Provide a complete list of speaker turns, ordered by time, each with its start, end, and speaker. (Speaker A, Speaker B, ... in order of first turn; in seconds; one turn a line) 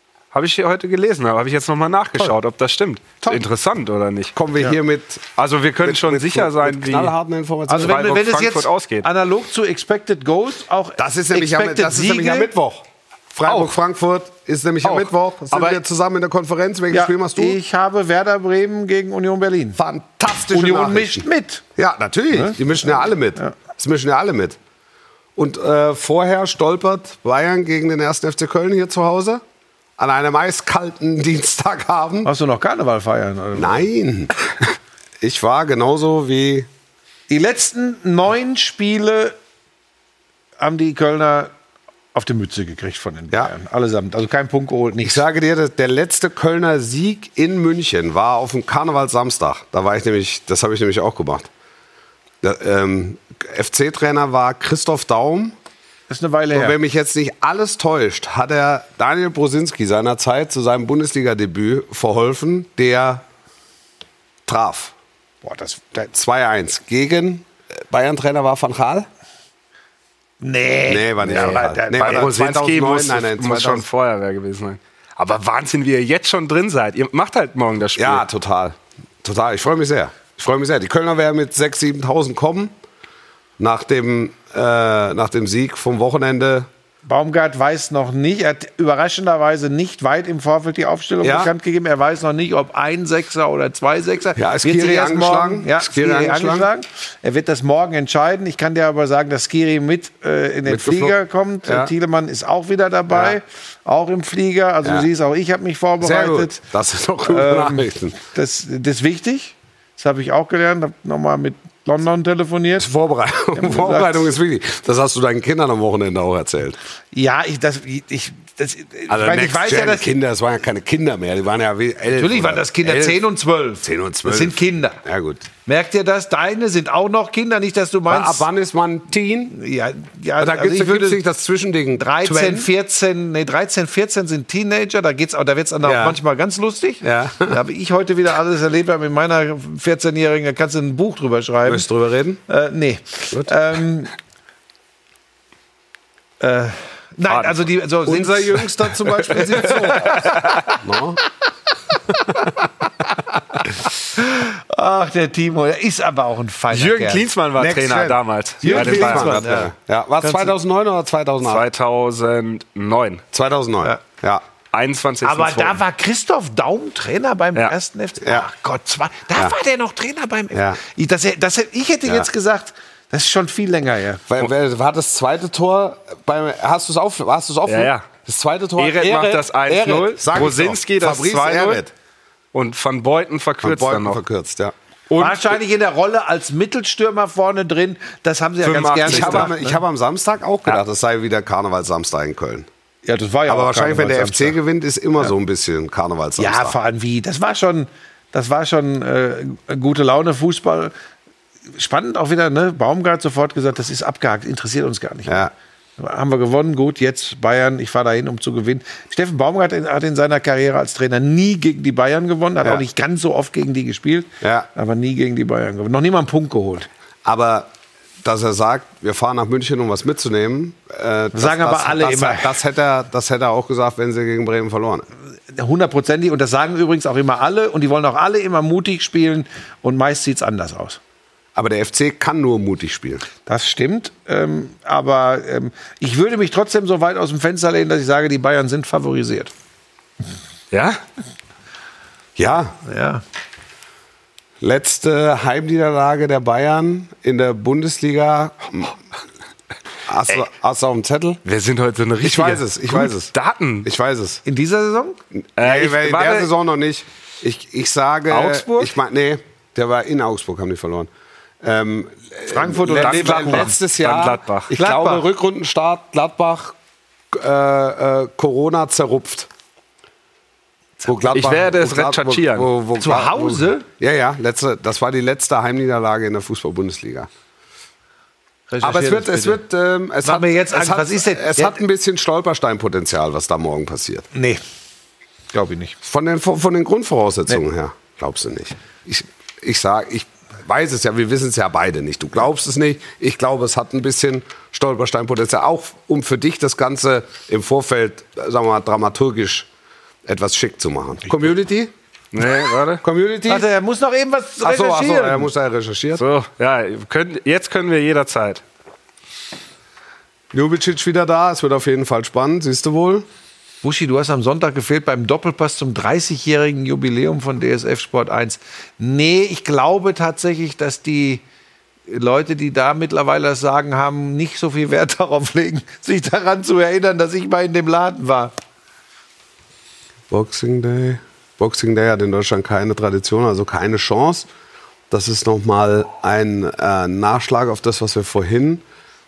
Speaker A: 0.3-4.3
Speaker B: 4.3-8.1
Speaker A: 5.4-7.1
Speaker C: 7.7-12.5
Speaker A: 7.8-9.1
Speaker B: 11.0-17.6
Speaker A: 13.5-13.7
Speaker A: 14.8-15.8
Speaker C: 16.9-19.8
Speaker B: 19.8-24.6
Speaker C: 20.5-21.6
Speaker B: 25.4-29.4
Speaker B: 30.0-32.3
Speaker C: 32.2-33.8
Speaker B: 33.5-36.7
Speaker C: 37.3-39.4
Speaker C: 40.6-41.5
Speaker C: 42.1-45.2
Speaker B: 45.0-51.5
Speaker B: 52.4-55.5
Speaker C: 56.1-56.8
Speaker B: 56.5-63.2
Speaker B: 64.5-64.9
Speaker C: 65.4-66.1
Speaker B: 66.1-69.1
Speaker C: 70.4-72.3
Speaker B: 70.9-73.9
Speaker A: 71.3-78.2
Speaker B: 78.0-82.7
Speaker B: 83.6-86.7
Speaker C: 87.1-106.6
Speaker B: 91.2-91.5
Speaker B: 94.4-96.7
Speaker B: 100.7-101.9
Speaker B: 103.1-103.4
Speaker B: 106.0-108.2
Speaker C: 107.3-112.9
Speaker B: 112.8-116.8
Speaker C: 113.5-114.3
Speaker C: 117.1-120.1
Speaker B: 119.1-123.2
Speaker C: 122.1-125.0
Speaker B: 123.8-125.5
Speaker C: 125.6-128.5
Speaker B: 128.1-129.6
Speaker C: 129.5-131.2
Speaker B: 130.4-132.7
Speaker C: 132.0-141.9
Speaker B: 135.8-136.2
Speaker B: 137.0-137.6
Speaker B: 141.7-142.4
Speaker C: 142.5-144.1
Speaker C: 146.4-150.4
Speaker A: 147.3-147.6
Speaker B: 148.1-150.3
Speaker A: 150.0-150.7
Speaker B: 150.8-151.2
Speaker C: 152.1-152.6
Speaker C: 154.1-157.3
Speaker A: 156.7-159.5
Speaker B: 157.6-161.6
Speaker C: 158.6-160.5
Speaker A: 161.4-163.2
Speaker B: 163.3-164.4
Speaker A: 164.7-165.8
Speaker C: 165.2-174.2
Speaker B: 168.2-168.5
Speaker B: 170.5-170.8
Speaker B: 174.3-181.9
Speaker A: 177.7-178.1
Speaker A: 178.8-181.8
Speaker A: 182.5-184.2
Speaker B: 183.6-184.7
Speaker A: 185.1-185.4
Speaker C: 185.1-189.8
Speaker B: 188.6-192.7
Speaker A: 189.0-189.5
Speaker C: 193.1-194.6
Speaker B: 193.5-196.8
Speaker C: 196.4-200.9
Speaker C: 201.7-216.9
Speaker B: 205.3-205.5
Speaker B: 214.4-214.7
Speaker B: 217.2-217.7
Speaker B: 218.2-225.1
Speaker C: 221.3-222.6
Speaker C: 225.5-231.0
Speaker B: 231.6-233.2
Speaker C: 233.5-239.5
Speaker A: 240.7-241.0
Speaker B: 242.4-242.8
Speaker C: 242.8-243.2
Speaker B: 244.6-249.0
Speaker B: 250.1-251.4
Speaker A: 251.4-253.9
Speaker B: 252.2-253.3
Speaker B: 253.8-254.4
Speaker C: 254.4-255.2
Speaker B: 255.6-261.1
Speaker A: 255.6-256.5
Speaker A: 258.3-258.9
Speaker B: 261.6-266.8
Speaker C: 262.5-263.8
Speaker A: 263.0-264.7
Speaker C: 264.7-265.2
Speaker B: 267.3-269.5
Speaker B: 271.0-277.3
Speaker A: 271.3-272.7
Speaker C: 273.0-273.9
Speaker C: 278.7-279.6
Speaker B: 278.8-284.3
Speaker C: 280.2-281.8
Speaker C: 284.3-284.6
Speaker C: 285.5-286.0
Speaker B: 286.0-299.7
Speaker B: 300.3-301.9
Speaker A: 302.3-303.0
Speaker B: 303.0-303.6
Speaker C: 303.5-305.5
Speaker B: 304.6-306.2
Speaker A: 306.2-308.6
Speaker B: 310.5-313.3
Speaker C: 313.8-321.4
Speaker C: 322.1-328.5
Speaker B: 330.3-334.5
Speaker B: 335.1-338.8